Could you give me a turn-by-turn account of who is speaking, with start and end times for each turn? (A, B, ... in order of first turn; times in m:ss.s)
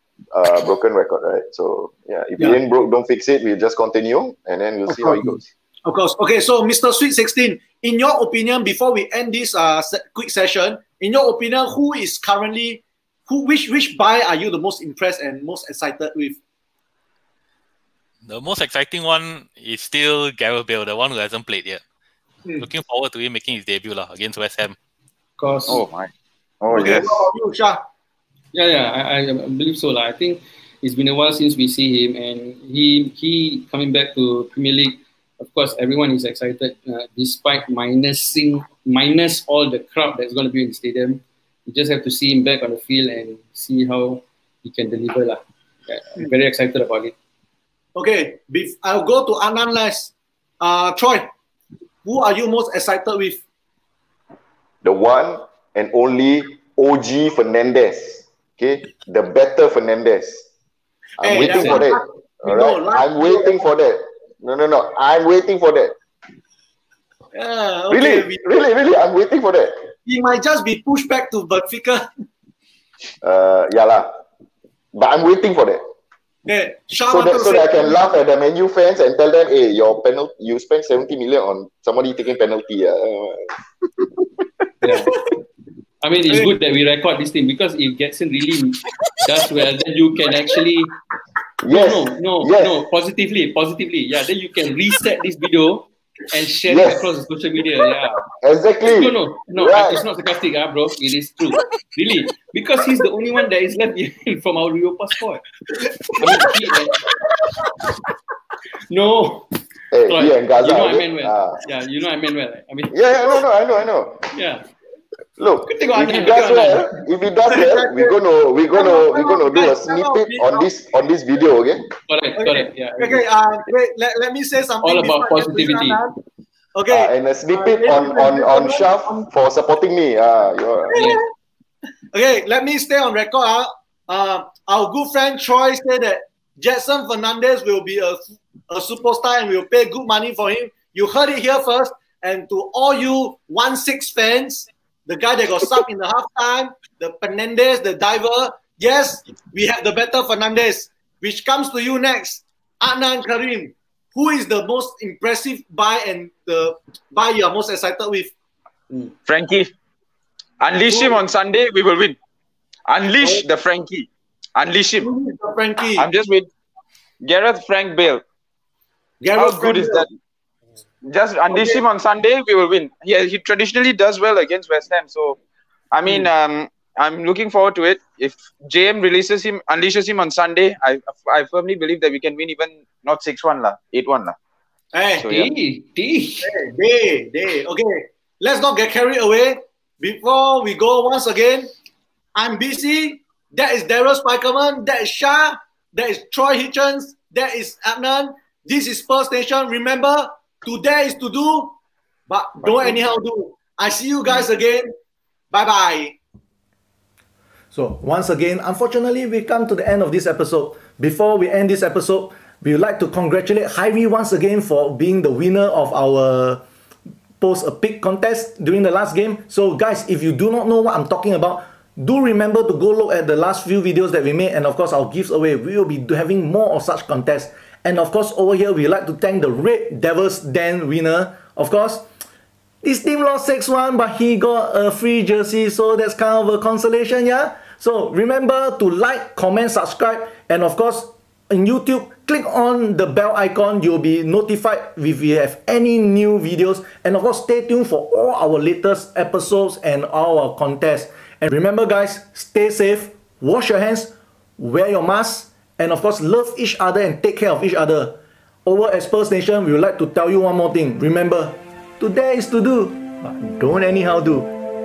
0:00.3-0:05.5 A
0:04.9-0:16.4 B
0:18.2-0:21.8 C
0:22.6-0:24.8 C
0:25.4-0:25.8 D
0:25.7-0:27.3 E
0:26.7-0:27.8 B
0:28.5-0:47.1 D
0:48.0-0:51.3 B
0:52.0-0:53.4 B
0:54.8-1:00.4 A
1:01.2-1:05.9 A
1:01.2-1:03.6 B
1:01.4-1:01.8 D
1:07.3-1:08.4 B
1:07.9-1:09.8 A
1:10.0-1:12.2 B
1:13.2-1:14.1 A
1:14.9-1:15.8 A
1:16.4-1:18.0 B
1:17.1-1:23.5 A
1:24.8-1:25.1 D
1:26.0-1:30.9 D
1:31.6-1:32.8 A
1:31.7-1:38.2 D
1:36.6-1:37.1 A
1:38.4-1:40.0 A
1:38.9-1:45.4 D
1:46.2-1:47.0 D
1:46.2-1:46.5 B
1:47.4-1:47.9 B
1:48.9-1:49.4 D
1:49.9-1:51.6 A
1:50.1-1:53.0 D
1:52.9-1:54.3 A
1:54.3-1:54.6 D
1:55.4-2:01.9 A
1:55.7-1:56.9 D
1:57.5-1:58.2 B
1:58.7-2:00.7 B
2:02.1-2:03.2 D
2:02.4-2:06.2 B
2:04.8-2:06.0 D
2:06.7-2:09.3 B
2:06.9-2:11.1 A
2:10.9-2:11.2 D
2:10.9-2:11.3 B
2:12.1-2:38.3 B
2:39.2-2:39.7 E
2:40.6-2:42.2 E
2:40.9-2:41.2 B
2:42.9-2:45.1 E
2:45.0-2:46.1 B
2:46.0-2:46.5 E
2:47.2-2:48.2 E
2:49.2-2:50.0 B
2:49.3-2:50.1 E
2:51.0-2:55.4 E
2:51.5-2:51.8 B
2:55.9-3:04.4 E
3:04.9-3:05.3 B
3:05.2-3:05.5 E
3:05.3-3:06.5 D
3:06.4-3:11.7 B
3:12.4-3:21.8 B
3:22.3-3:24.9 B
3:25.5-3:26.2 B
3:27.7-3:36.6 F
3:37.4-3:52.0 F
3:52.8-4:24.5 F